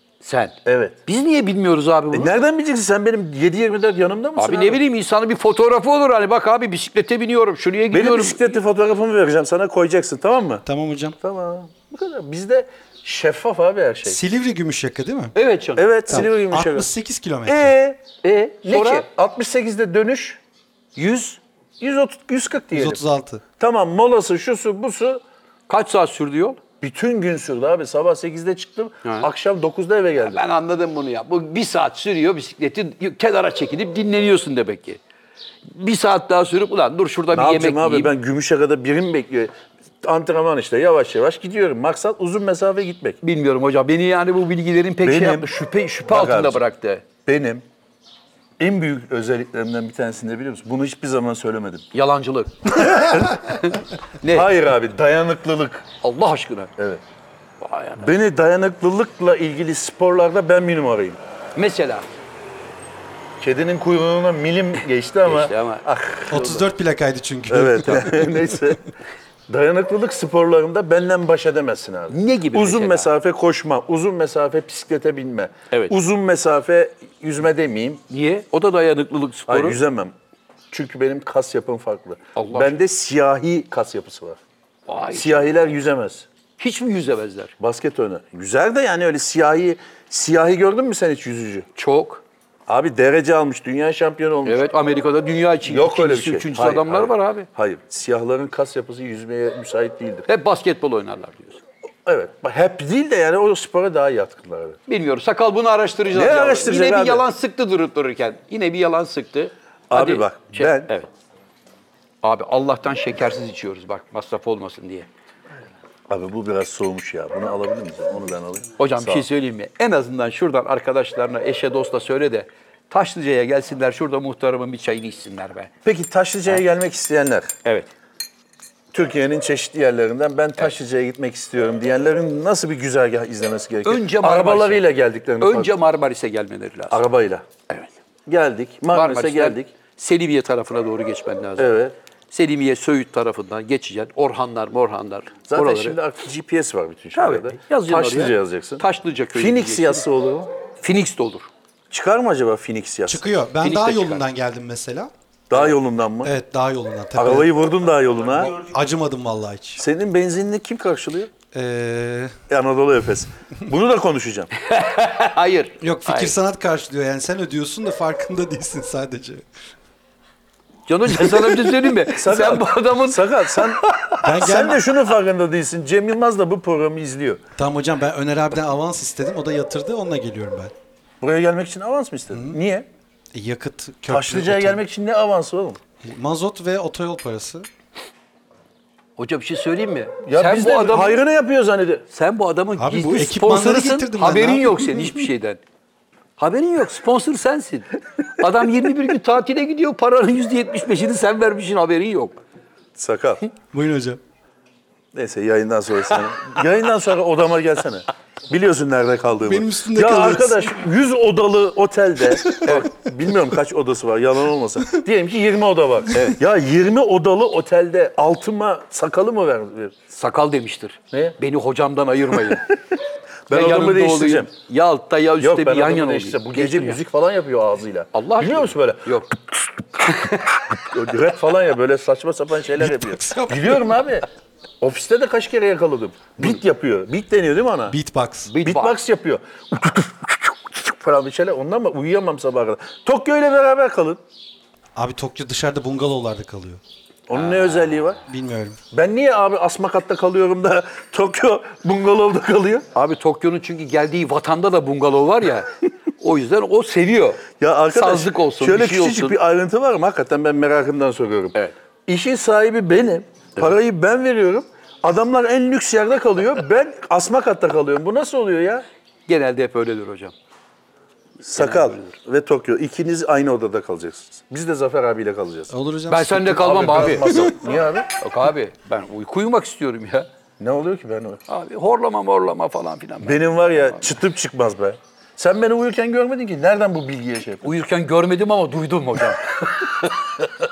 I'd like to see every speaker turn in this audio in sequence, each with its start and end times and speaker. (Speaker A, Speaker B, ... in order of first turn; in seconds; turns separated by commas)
Speaker A: 0.2-2.4, Speaker B: 0.6-1.0, Speaker B: 2.1-4.8, Speaker A: 4.4-8.6, Speaker B: 7.9-10.6, Speaker C: 10.7-11.2, Speaker B: 11.2-14.2, Speaker C: 14.1-15.3, Speaker A: 15.3-16.2, Speaker B: 15.8-16.9, Speaker C: 16.1-17.7, Speaker B: 17.4-18.0, Speaker A: 18.2-19.1, Speaker B: 18.6-20.4, Speaker A: 20.9-21.4, Speaker B: 21.8-23.0, Speaker C: 22.7-23.4, Speaker B: 23.6-25.2, Speaker A: 25.7-26.6, Speaker B: 26.8-30.4, Speaker A: 29.0-29.3, Speaker A: 30.2-35.0, Speaker A: 35.6-38.1, Speaker B: 37.3-43.2, Speaker A: 43.2-47.1, Speaker B: 45.0-45.5, Speaker B: 46.0-46.6, Speaker B: 47.2-47.6, Speaker B: 48.6-51.9, Speaker A: 51.9-54.5, Speaker B: 52.7-53.6, Speaker B: 54.2-55.9, Speaker A: 56.0-56.7, Speaker B: 56.8-57.0, Speaker A: 57.6-58.1, Speaker B: 58.0-61.2, Speaker A: 61.5-62.0, Speaker B: 63.4-66.7, Speaker A: 65.2-65.8, Speaker C: 66.3-68.6, Speaker B: 67.5-68.8, Speaker B: 69.5-78.0, Speaker A: 72.1-73.1, Speaker A: 78.1-79.8, Speaker B: 79.5-80.1, Speaker B: 80.7-84.4, Speaker A: 82.3-82.7, Speaker A: 84.9-85.5, Speaker B: 85.1-86.3, Speaker A: 86.6-87.5, Speaker B: 87.6-91.7, Speaker A: 91.8-92.2, Speaker B: 92.7-94.6, Speaker A: 94.4-97.5, Speaker B: 95.6-100.3, Speaker A: 100.3-101.6, Speaker B: 102.0-104.8, Speaker A: 104.9-111.1, Speaker B: 106.1-107.2, Speaker B: 109.9-110.9, Speaker A: 112.2-115.1, Speaker B: 116.1-119.2, Speaker A: 118.8-125.7, Speaker B: 125.8-127.5, Speaker A: 127.6-127.9, Speaker B: 128.9-135.7, Speaker A: 133.8-134.8, Speaker A: 135.4-137.0, Speaker B: 136.9-137.4, Speaker B: 138.3-139.7, Speaker A: 138.9-141.7, Speaker B: 141.6-141.9, Speaker A: 142.3-146.0, Speaker B: 145.5-150.5, Speaker A: 147.1-150.1, Speaker A: 150.8-151.5, Speaker B: 151.9-153.2, Speaker C: 153.1-155.1, Speaker A: 153.6-154.2, Speaker B: 155.5-156.3, Speaker C: 156.2-157.5, Speaker B: 157.1-158.6, Speaker C: 158.5-159.8, Speaker B: 159.8-161.3, Speaker C: 161.5-162.4, Speaker B: 162.5-164.5, Speaker A: 164.6-166.3, Speaker C: 165.8-169.4, Speaker A: 170.9-174.2, Speaker B: 172.1-177.4, Speaker C: 174.2-174.8, Speaker C: 177.6-180.7, Speaker B: 181.2-182.9, Speaker C: 183.3-184.8, Speaker B: 184.1-185.8, Speaker C: 186.0-187.7, Speaker A: 189.2-191.2, Speaker B: 190.2-192.0, Speaker A: 192.1-195.6, Speaker C: 192.8-195.2, Speaker A: 196.4-202.4, Speaker B: 202.9-203.4, Speaker C: 203.7-204.2, Speaker B: 205.1-219.9, Speaker C: 209.4-210.7, Speaker A: 220.1-222.7, Speaker B: 221.1-221.4, Speaker B: 222.4-222.8, Speaker B: 223.5-224.5, Speaker A: 223.5-227.0, Speaker B: 225.4-229.1, Speaker A: 228.1-229.3, Speaker A: 229.9-230.7, Speaker B: 230.8-234.2, Speaker C: 232.8-233.7, Speaker B: 234.8-238.0, Speaker C: 237.9-238.5, Speaker A: 238.5-239.0, Speaker B: 238.6-244.2, Speaker C: 244.9-246.8, Speaker B: 247.3-248.2, Speaker A: 247.3-247.8, Speaker C: 248.3-248.8, Speaker B: 248.9-252.9, Speaker A: 252.9-259.4, Speaker B: 257.6-261.6, Speaker B: 262.1-268.9, Speaker A: 269.3-270.3, Speaker B: 271.4-275.7, Speaker A: 271.6-272.1, Speaker C: 275.7-277.6, Speaker A: 276.1-277.5, Speaker B: 276.6-278.1, Speaker A: 278.2-280.3, Speaker B: 280.6-281.4, Speaker A: 281.5-284.1, Speaker B: 283.2-287.7, Speaker A: 287.6-290.3